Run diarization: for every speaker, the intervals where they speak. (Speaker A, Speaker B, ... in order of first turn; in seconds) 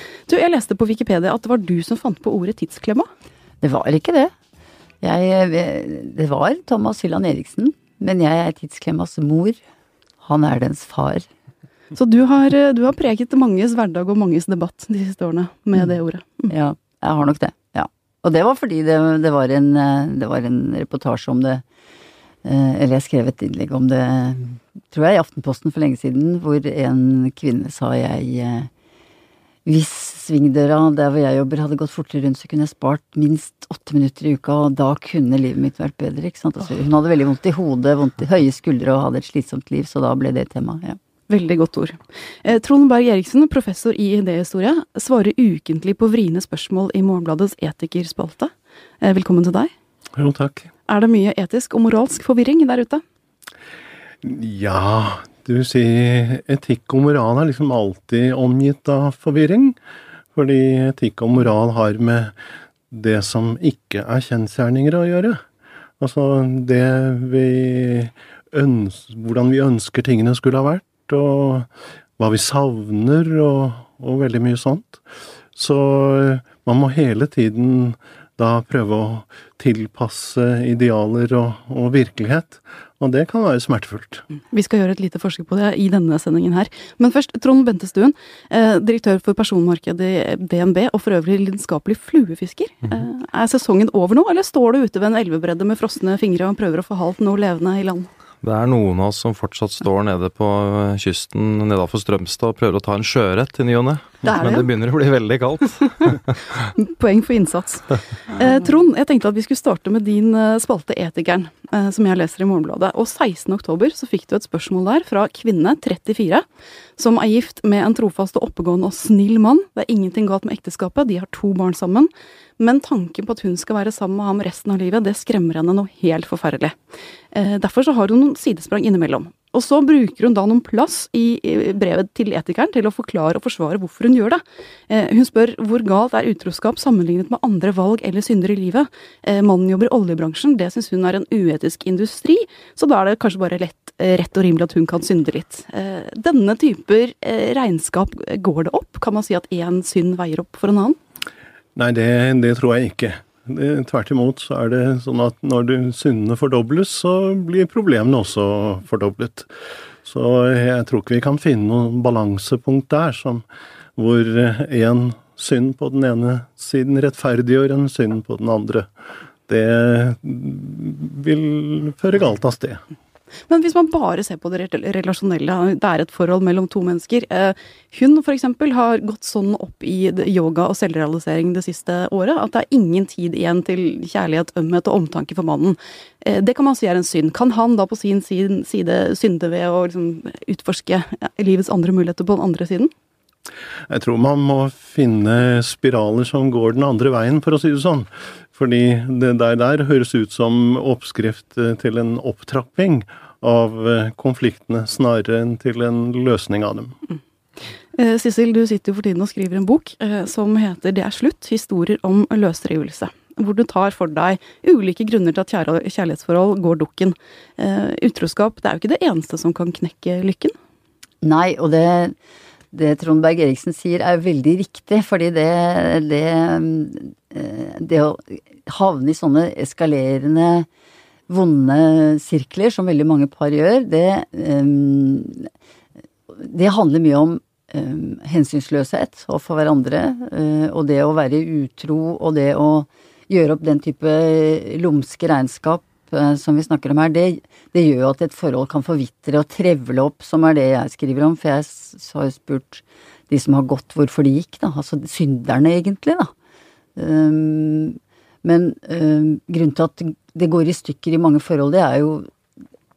Speaker A: 0.3-3.1, 11.9-16.5, 41.3-49.7, 50.9-53.0, 84.5-98.1, 104.2-104.7, 106.7-116.4, 117.0-126.8, 127.3-151.0, 173.5-192.9, 207.9-220.5
Speaker B: 3.6-4.3, 5.0-9.6, 10.2-11.2, 16.5-21.6, 22.4-28.7, 29.6-41.0, 221.2-222.1, 222.7-230.7, 231.3-235.5, 236.3-256.3, 256.9-262.3
Speaker C: 50.2-50.7, 54.2-59.8, 60.3-62.3, 62.9-65.4, 66.0-75.0, 75.5-84.2, 151.7-159.5, 160.0-163.4, 163.9-168.9, 169.5-172.8, 193.9-207.0
Speaker D: 98.4-106.2